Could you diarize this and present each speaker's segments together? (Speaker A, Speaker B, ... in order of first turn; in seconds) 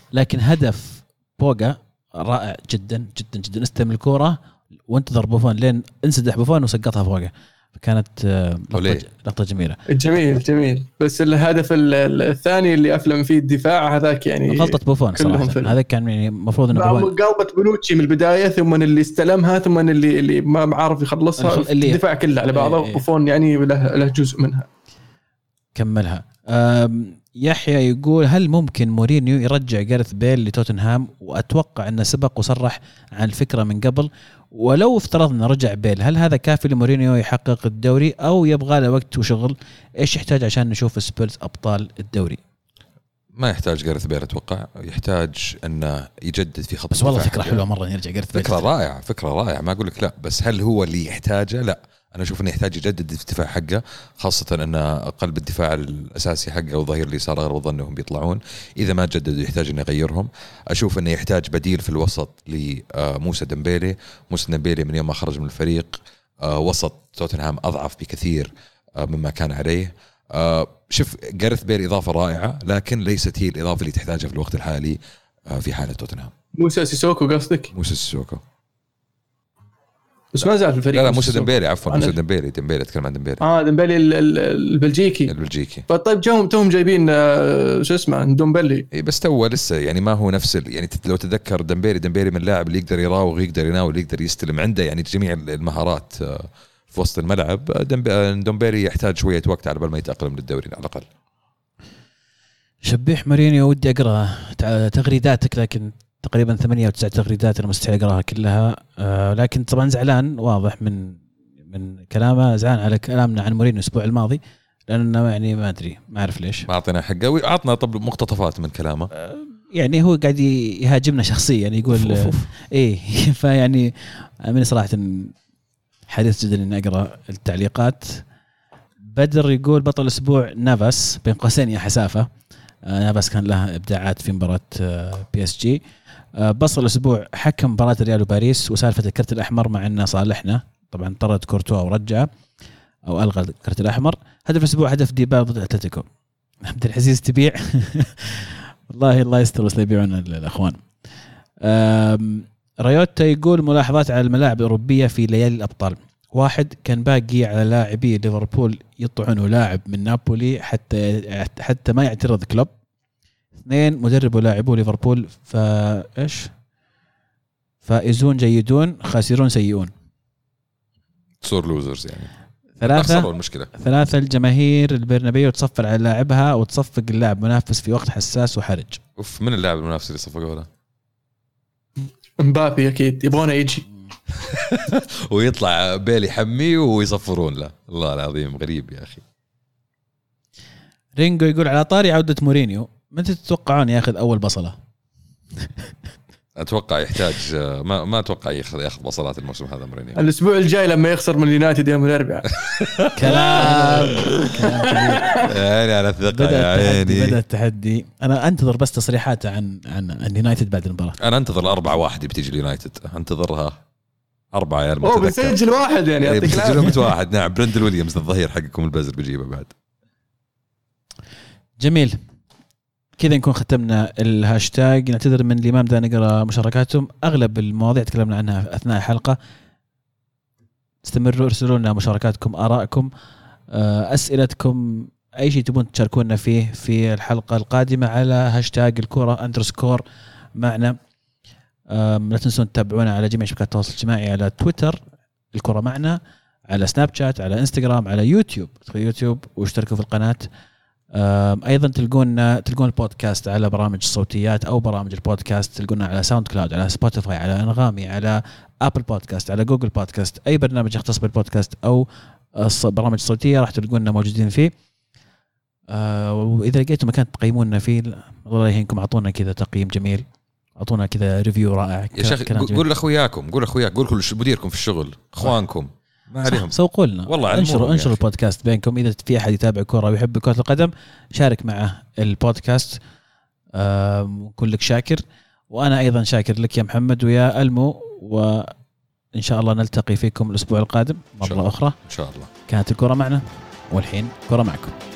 Speaker A: 0.1-9.8, 14.5-17.1, 21.4-23.0, 25.7-42.4, 46.9-48.6, 102.8-116.7, 119.1-125.3, 126.1-128.2, 129.1-132.3, 132.8-135.8, 136.3-142.3, 143.1-146.1, 146.6-150.8, 151.6-162.7, 163.6-166.5, 167.8-169.9, 172.8-179.0, 191.2-194.8, 203.1-205.5, 206.3-211.2, 221.8-222.2, 223.2-229.4, 231.0-233.1, 233.7-240.0, 240.6-241.0, 241.9-245.0, 245.5-250.5, 251.1-264.7, 265.9-270.2, 270.8-272.8, 276.5-283.0, 283.7-288.7, 289.4-291.9, 292.7-294.9
Speaker B: 8.7-9.0, 43.3-47.6, 48.3-76.3, 77.7-78.4, 80.9-83.4, 85.3-85.9, 88.9-101.0, 116.7-119.1, 121.9-122.5, 171.4-172.3, 172.8-173.7, 179.2-180.7, 184.3-189.2, 196.6-200.2, 202.7-204.5, 205.4-207.4, 211.2-213.8, 214.5-215.6, 216.2-219.7, 272.1-278.2, 291.4-292.5
Speaker C: 9.9-15.8, 16.7-24.7, 76.6-77.7, 80.3-82.1, 83.4-85.3, 85.9-88.8, 182.4-183.8, 200.1-202.6, 203.6-204.2, 204.9-205.5, 215.0-217.0